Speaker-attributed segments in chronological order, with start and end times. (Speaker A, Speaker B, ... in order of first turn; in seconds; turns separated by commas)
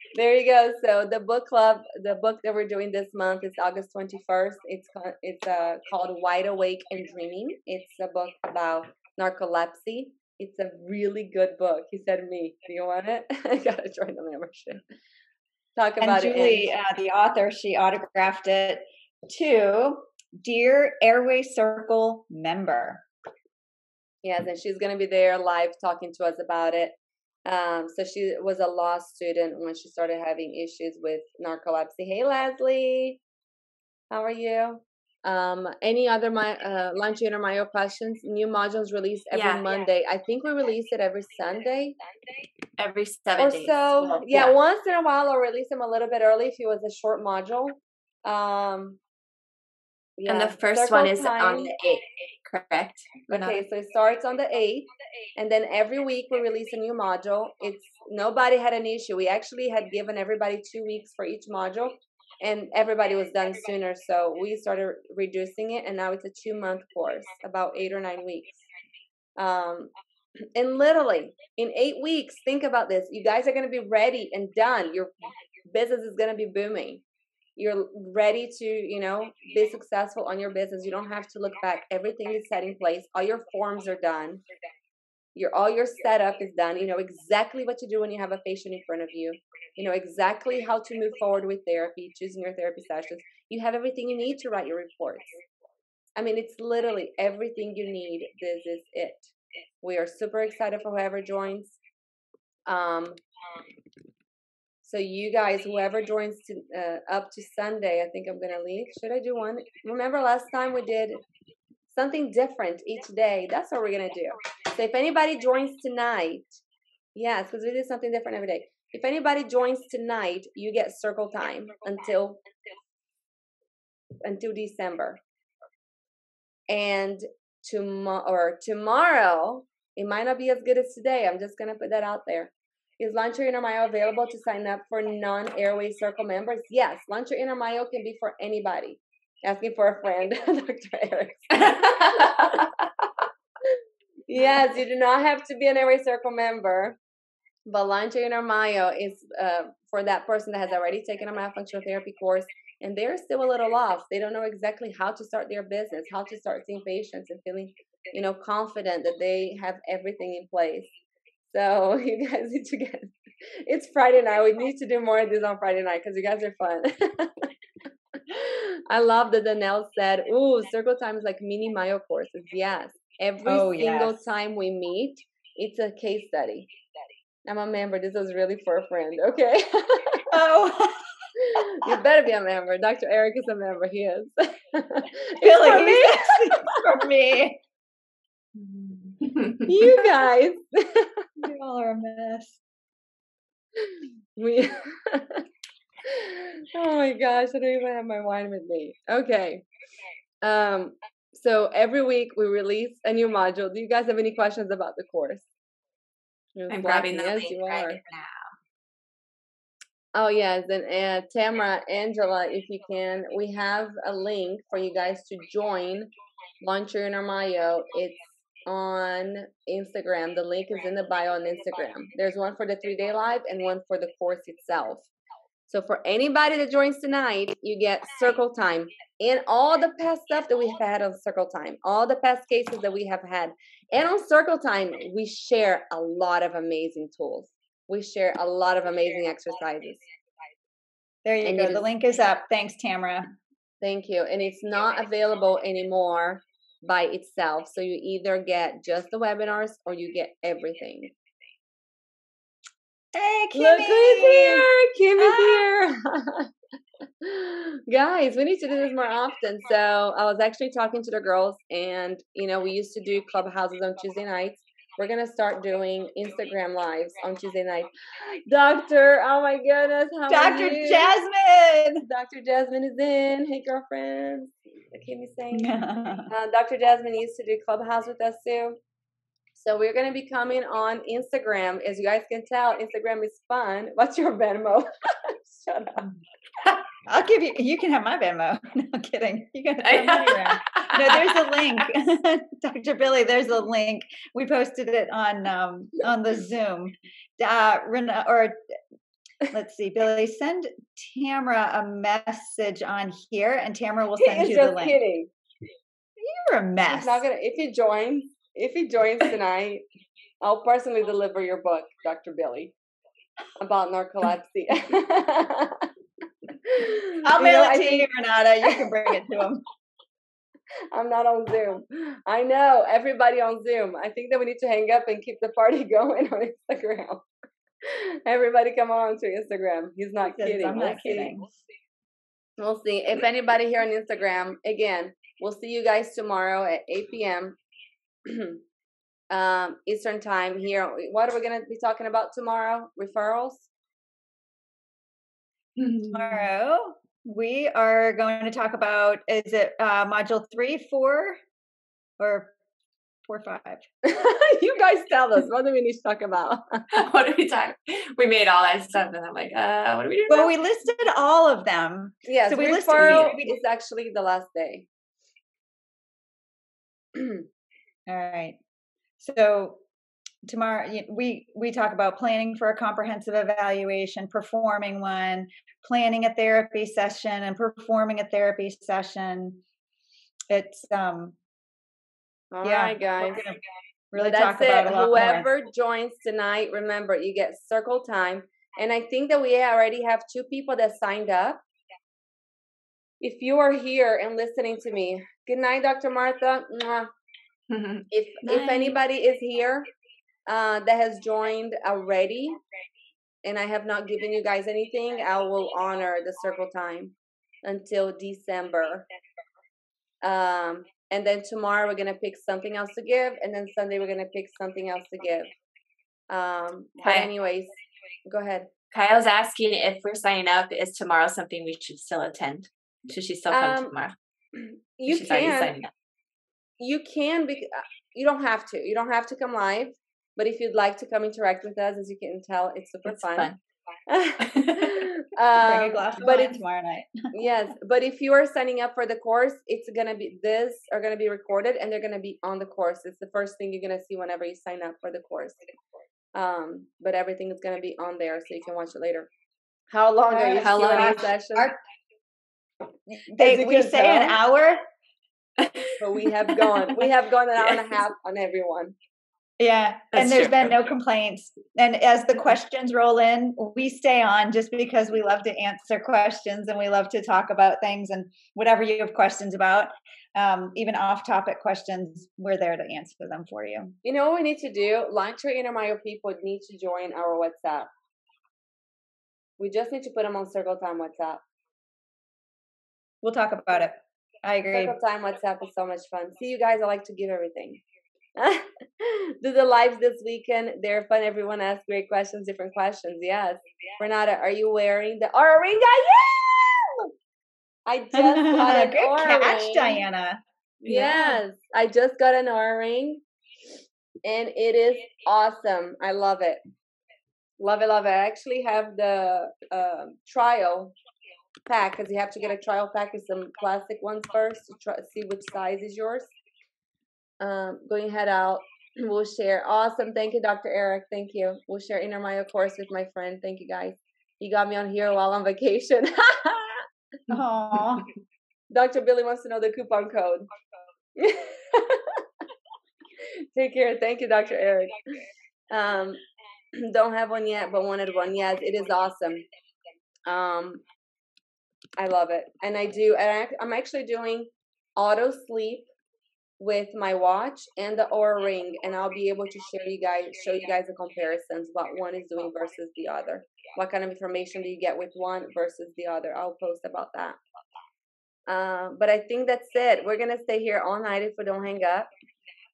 Speaker A: 0.1-14.8, Speaker A: 15.8-16.7, Speaker B: 16.0-23.0, Speaker A: 24.2-33.2, Speaker A: 34.1-42.0, Speaker C: 39.3-39.6, Speaker C: 42.8-44.5, Speaker A: 43.4-49.0, Speaker A: 50.2-51.7, Speaker C: 50.3-53.6, Speaker A: 53.3-68.6, Speaker A: 69.4-69.9, Speaker A: 70.5-77.0, Speaker A: 77.6-84.4, Speaker A: 85.3-95.4, Speaker A: 96.2-101.8, Speaker A: 102.7-103.2, Speaker A: 104.8-111.2, Speaker A: 111.9-116.6, Speaker A: 117.1-122.4, Speaker A: 124.2-125.2, Speaker A: 126.7-143.1, Speaker C: 141.7-142.1, Speaker A: 144.3-147.0, Speaker A: 147.7-160.9, Speaker A: 161.5-167.4, Speaker A: 168.3-176.7, Speaker B: 173.4-174.2, Speaker A: 177.4-180.2, Speaker B: 180.3-181.1, Speaker A: 181.4-186.8, Speaker B: 185.4-187.6, Speaker B: 188.5-189.4, Speaker C: 189.3-189.6, Speaker A: 189.6-191.2, Speaker B: 191.4-192.6, Speaker A: 193.9-195.4, Speaker A: 196.0-199.6, Speaker A: 200.4-205.5, Speaker A: 206.6-208.0, Speaker C: 206.7-208.3, Speaker A: 210.1-225.1, Speaker A: 225.7-240.0, Speaker B: 241.2-243.3, Speaker A: 241.4-241.8, Speaker A: 243.8-251.1, Speaker B: 253.1-255.6, Speaker A: 253.5-256.5, Speaker A: 257.2-271.1, Speaker B: 270.3-272.0, Speaker A: 272.0-275.7, Speaker B: 275.5-276.3, Speaker A: 276.3-278.8, Speaker A: 279.6-286.1, Speaker B: 287.0-298.6, Speaker C: 289.8-291.4, Speaker B: 299.5-305.0, Speaker A: 304.2-305.3, Speaker B: 306.2-307.2, Speaker A: 306.9-309.8, Speaker A: 310.4-312.7, Speaker A: 313.6-315.9, Speaker A: 316.6-318.1, Speaker B: 317.2-319.6, Speaker A: 320.9-327.2, Speaker A: 327.8-331.4, Speaker B: 330.2-331.4, Speaker A: 332.6-337.6, Speaker A: 338.2-338.6, Speaker A: 339.3-343.7, Speaker C: 345.8-346.3, Speaker B: 346.0-351.4, Speaker B: 352.2-352.5, Speaker B: 353.3-353.8, Speaker A: 354.0-356.8, Speaker C: 356.9-360.5, Speaker B: 360.3-363.6, Speaker A: 362.2-364.9, Speaker A: 367.1-367.4, Speaker B: 368.1-368.6, Speaker B: 369.2-369.8, Speaker B: 370.4-379.6, Speaker B: 380.5-381.4, Speaker A: 382.5-383.5, Speaker B: 382.6-383.6, Speaker B: 384.1-385.5, Speaker A: 384.2-391.6, Speaker A: 393.2-397.1, Speaker C: 397.7-398.9, Speaker A: 398.1-399.9, Speaker A: 400.5-402.6, Speaker A: 403.4-409.0, Speaker A: 410.2-415.5, Speaker A: 416.3-418.7, Speaker C: 417.0-417.3, Speaker C: 418.9-424.1, Speaker A: 423.5-423.9, Speaker A: 424.5-425.8, Speaker C: 425.1-425.9, Speaker A: 426.8-433.5, Speaker C: 433.1-433.6, Speaker A: 434.1-436.6, Speaker C: 434.4-435.0, Speaker B: 435.6-437.3, Speaker A: 437.3-445.6, Speaker A: 446.3-449.3, Speaker A: 449.9-451.7, Speaker B: 450.3-451.8, Speaker C: 450.6-451.2, Speaker B: 453.1-454.9, Speaker A: 453.4-454.4, Speaker C: 455.6-456.0, Speaker A: 456.0-458.9, Speaker B: 459.6-473.9, Speaker C: 460.1-460.7, Speaker A: 474.0-477.9, Speaker A: 479.6-481.4, Speaker B: 483.2-485.0, Speaker A: 484.7-487.8, Speaker A: 488.4-497.1, Speaker A: 497.9-500.0, Speaker B: 498.1-501.4, Speaker A: 500.8-503.2, Speaker A: 504.2-506.6, Speaker A: 507.6-510.9, Speaker A: 511.7-516.3, Speaker A: 517.4-526.8, Speaker B: 527.3-528.1, Speaker A: 528.7-530.5, Speaker A: 531.2-532.2, Speaker A: 533.5-535.0, Speaker A: 535.7-536.2, Speaker A: 536.7-539.4, Speaker A: 540.2-540.8, Speaker A: 542.0-545.9, Speaker A: 546.6-557.4, Speaker A: 558.5-562.1